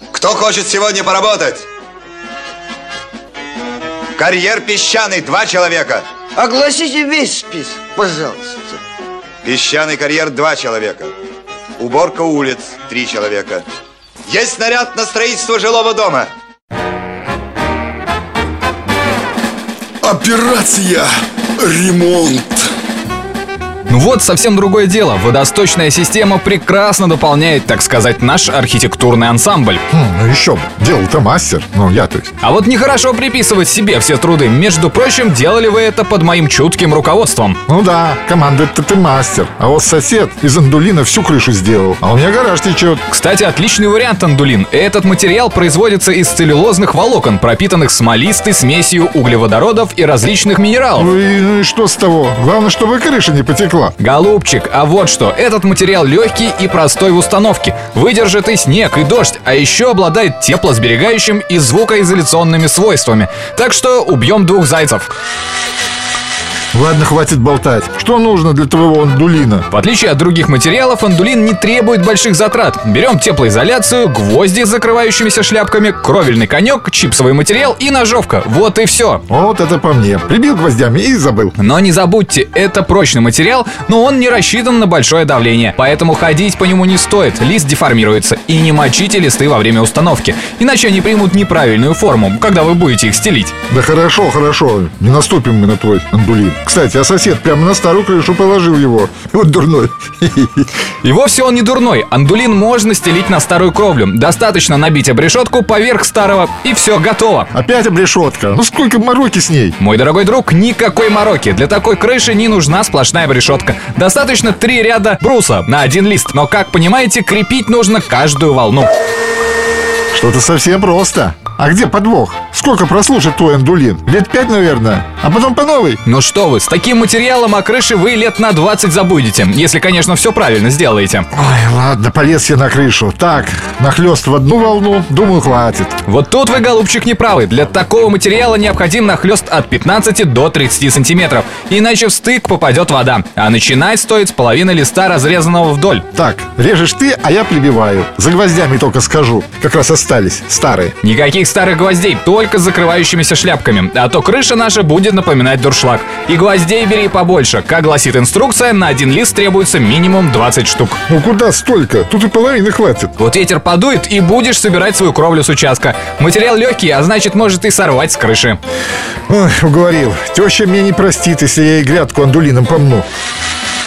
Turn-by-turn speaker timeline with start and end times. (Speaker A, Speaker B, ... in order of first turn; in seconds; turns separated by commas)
Speaker A: 0.1-1.7, Speaker A: 4.2-6.0, Speaker B: 6.4-8.8, Speaker A: 9.4-11.1, Speaker A: 11.8-13.6, Speaker A: 14.3-16.3, Speaker C: 20.0-22.7, Speaker D: 23.9-29.8, Speaker E: 29.9-32.4, Speaker D: 32.4-37.6, Speaker E: 37.7-43.0, Speaker D: 43.1-51.1, Speaker E: 51.0-54.0, Speaker D: 54.0-65.1, Speaker E: 66.7-69.7, Speaker D: 69.7-79.2, Speaker E: 79.3-81.5, Speaker D: 81.6-93.5, Speaker E: 93.7-100.7, Speaker D: 101.0-107.5, Speaker E: 107.5-109.8, Speaker D: 109.8-118.9, Speaker E: 120.1-126.0, Speaker D: 126.0-131.3, Speaker E: 131.3-136.0, Speaker D: 136.1-146.1, Speaker E: 146.1-151.0, Speaker D: 151.0-161.0, Speaker E: 161.1-163.1, Speaker D: 163.2-168.6, Speaker E: 169.3-173.1